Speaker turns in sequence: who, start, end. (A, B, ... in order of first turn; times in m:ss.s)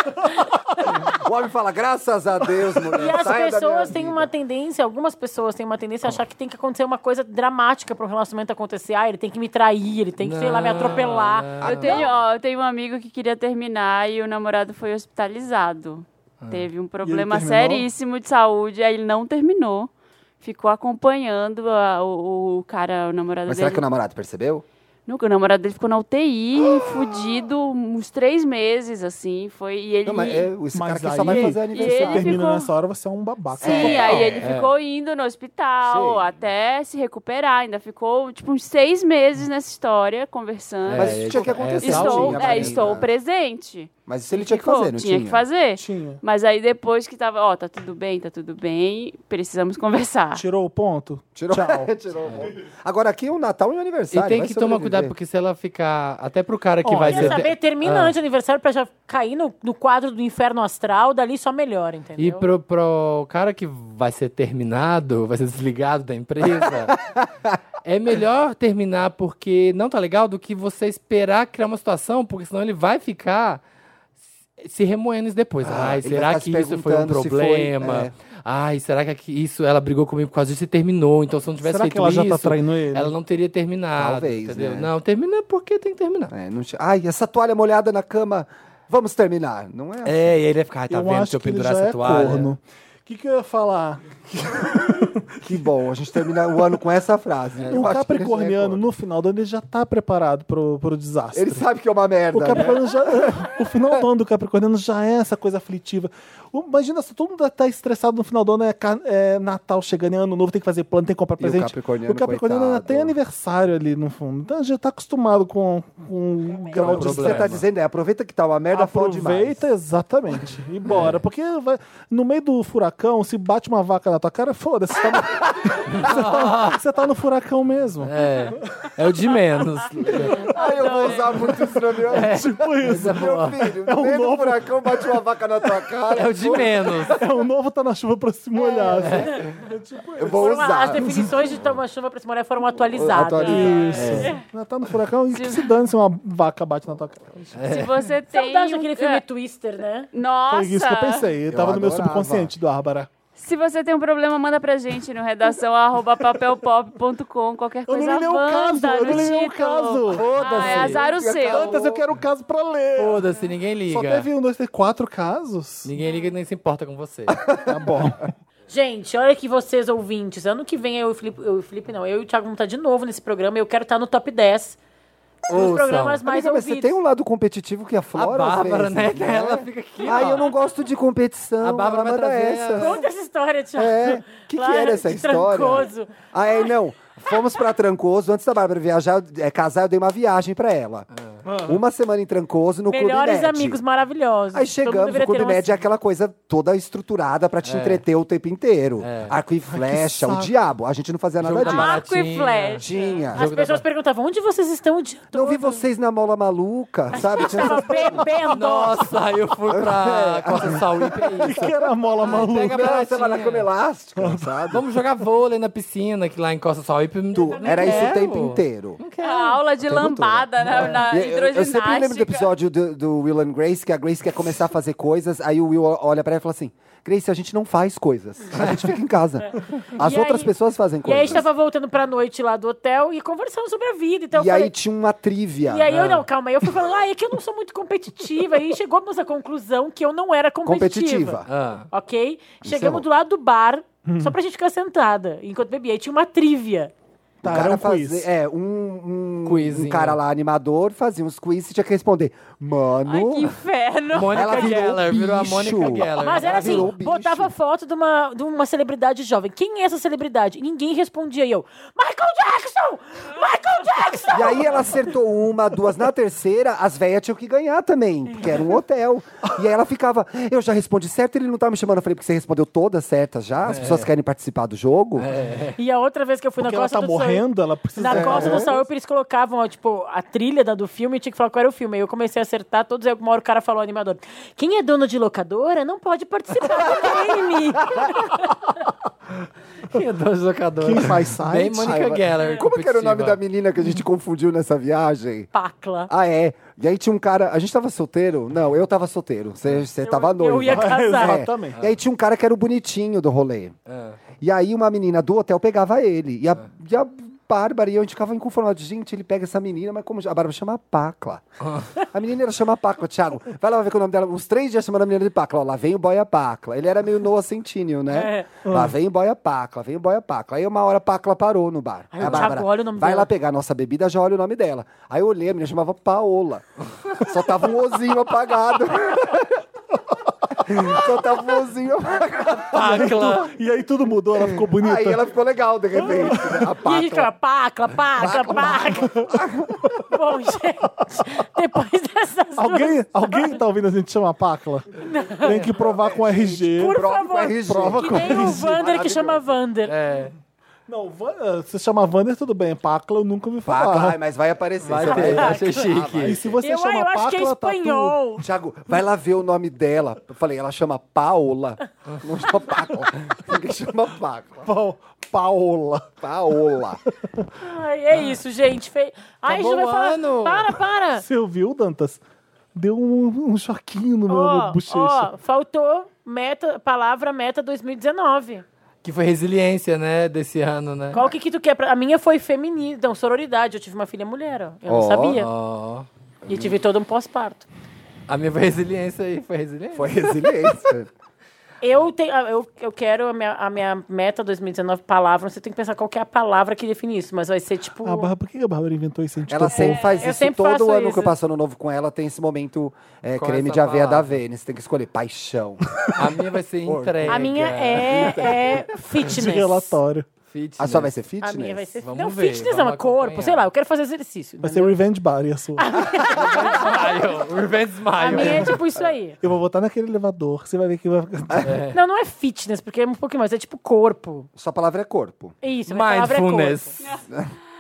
0:00.9-0:04.3 A
0:02.9-0:12.0 B
0:10.2-0:12.2 C
0:11.6-0:23.8 D
0:16.4-0:16.7 C
0:17.0-0:17.9 E
0:23.5-0:24.6 A
0:25.1-0:30.5 D
0:30.0-0:32.4 A
0:30.7-0:34.4 E
0:31.2-0:32.7 D
0:33.6-0:50.4 D
0:33.6-0:34.2 A
0:33.8-0:34.7 C
0:35.8-0:36.3 A
0:40.9-0:43.0 C
0:40.9-0:43.1 A
0:44.1-0:45.4 A
0:45.8-0:46.2 E
0:50.3-0:51.9 E
0:51.4-0:55.2 A
0:52.2-0:52.5 C
0:54.1-0:58.2 C
0:56.8-0:57.5 E
0:57.1-1:02.4 B
1:02.2-1:07.0 C
1:06.6-1:07.6 A
1:07.8-1:13.6 C
1:14.6-1:26.3 C
1:15.6-1:18.1 A
1:21.6-1:23.1 E
1:24.0-1:24.9 A
1:26.3-1:30.4 A
1:30.0-1:32.5 C
1:30.9-1:35.5 E
1:35.4-1:38.9 A
1:37.6-1:38.2 C
1:37.7-1:41.6 E
1:41.3-1:44.0 A
1:42.3-1:57.6 E
1:51.4-1:53.2 A
1:56.5-1:56.8 B
1:56.7-1:59.6 A
1:56.8-1:57.6 C
1:58.7-2:08.1 E
2:00.9-2:01.2 C
2:05.9-2:06.8 C
2:08.0-2:10.5 C
2:10.2-2:11.5 D
2:10.3-2:16.9 A
2:12.0-2:15.2 E
2:12.1-2:13.6 C
2:16.1-2:17.2 C
2:16.9-2:21.3 E
2:18.9-2:19.4 C
2:20.2-2:21.3 A
2:20.3-2:24.3 B
2:22.9-2:24.1 A
2:23.2-2:27.9 E
2:23.9-2:24.4 C
2:25.3-2:25.8 D
2:27.6-2:27.9 C
2:27.7-2:29.2 D
2:28.3-2:30.1 B
2:30.1-2:31.3 D
2:30.5-2:33.1 E
2:31.5-2:32.5 A
2:33.4-2:41.9 D
2:37.9-2:43.3 E
2:40.1-2:41.0 C
2:40.4-2:42.0 A
2:43.0-2:44.3 C
2:43.9-2:45.9 E
2:45.8-2:47.5 C
2:46.0-2:46.3 D
2:47.5-2:47.9 A
2:47.7-2:48.3 E
2:48.7-2:54.8 B
2:55.5-2:57.0 B
2:55.5-3:03.0 A
2:55.6-2:56.2 C
2:58.2-3:00.5 C
3:01.6-3:03.0 C
3:02.8-3:06.1 B
3:03.8-3:11.1 A
3:11.5-3:11.8 E
3:11.6-3:13.8 A
3:12.9-3:15.8 B
3:14.5-3:22.0 A
3:17.6-3:18.0 C
3:19.0-3:19.4 C
3:19.7-3:20.5 E
3:21.4-3:23.8 C
3:21.7-3:23.3 D
3:22.0-3:22.7 B
3:22.8-3:23.4 A
3:23.4-3:25.8 B
3:25.3-3:28.3 A
3:27.1-3:29.1 B
3:27.6-3:27.8 E
3:28.5-3:33.7 C
3:29.7-3:31.7 A
3:31.5-3:32.9 E
3:32.2-3:34.8 A
3:34.2-3:34.8 E
3:34.7-3:40.1 C
3:37.3-3:39.0 A
3:37.4-3:38.2 B
3:39.2-3:42.5 D
3:39.8-3:51.5 A
3:40.6-3:41.1 C
3:50.0-3:50.5 B
3:51.0-3:54.7 B
3:54.3-3:55.9 A
3:55.7-4:06.9 B
3:55.9-3:56.3 C
4:00.6-4:01.5 A
4:01.5-4:01.9 C
4:02.6-4:03.1 A
4:04.1-4:04.4 E
4:07.4-4:08.3 E
4:07.4-4:13.6 A
4:09.4-4:10.2 C
4:13.1-4:14.8 D
4:14.1-4:16.9 C
4:14.3-4:17.5 A
4:16.2-4:25.0 B
4:24.3-4:35.3 A
4:33.7-4:34.1 C
4:35.2-4:35.8 C
4:35.8-4:48.6 B
4:36.6-4:38.9 E
4:38.1-4:38.7 A
4:47.0-4:47.2 A
4:49.9-4:53.4 C
4:50.8-4:52.0 E
4:51.8-4:55.5 A
4:55.5-4:56.1 B
4:56.1-5:03.8 A
5:00.0-5:01.4 B
5:00.7-5:01.8 E
5:03.9-5:04.2 C
5:04.4-5:11.4 A
5:11.6-5:11.9 C
5:12.1-5:29.5 A
5:18.1-5:18.5 B
5:18.7-5:18.9 E
5:22.1-5:23.3 B
5:22.2-5:22.5 C
5:30.6-5:33.1 A
5:32.7-5:35.2 E
5:32.7-5:33.5 C
5:34.4-5:37.3 A
5:36.0-5:36.7 E
5:36.8-5:39.4 B
5:38.2-5:39.9 A
5:38.9-5:40.1 E
5:40.1-5:43.6 B
5:42.6-5:47.0 E
5:45.0-5:45.6 B
5:45.4-5:45.7 C
5:45.8-5:49.5 A
5:46.7-5:50.0 B
5:47.7-5:48.8 E
5:49.8-5:50.3 C
5:50.9-5:54.2 E
5:53.7-5:56.6 A
5:54.8-5:56.4 C
5:55.1-5:55.8 B
5:56.2-5:58.2 E
5:56.6-5:58.4 B
5:58.4-6:04.7 A
6:04.6-6:06.1 E
6:06.2-6:07.0 A
6:07.6-6:11.3 B
6:09.5-6:10.8 C
6:11.2-6:12.2 E
6:12.8-6:15.3 E
6:14.3-6:18.6 B
6:19.0-6:21.2 C
6:21.1-6:25.5 B
6:24.9-6:25.4 A
6:25.4-6:26.1 C
6:26.5-6:26.8 A
6:26.5-6:27.7 B
6:28.3-6:30.8 C
6:29.9-6:31.1 A
6:31.8-6:38.3 B
6:38.0-6:40.1 E
6:39.5-6:46.1 A
6:39.8-6:40.3 D
6:40.2-6:41.3 B
6:43.4-6:44.4 C
6:46.1-6:48.6 C
6:46.8-6:48.9 A
6:47.3-6:50.0 B
6:49.2-6:50.3 E
6:49.3-6:49.6 C
6:50.5-6:51.1 C
6:50.8-6:51.9 A
6:51.4-6:55.0 B
6:52.0-6:53.7 C
6:54.6-6:56.0 E
6:55.8-6:57.2 B
6:56.2-6:58.9 C
6:56.5-6:57.0 A
6:58.2-6:59.4 B
6:58.2-6:58.7 D
6:59.4-7:01.7 E
7:01.6-7:02.0 C
7:01.9-7:04.5 B
7:04.6-7:05.6 A
7:05.6-7:07.0 B
7:05.9-7:07.0 C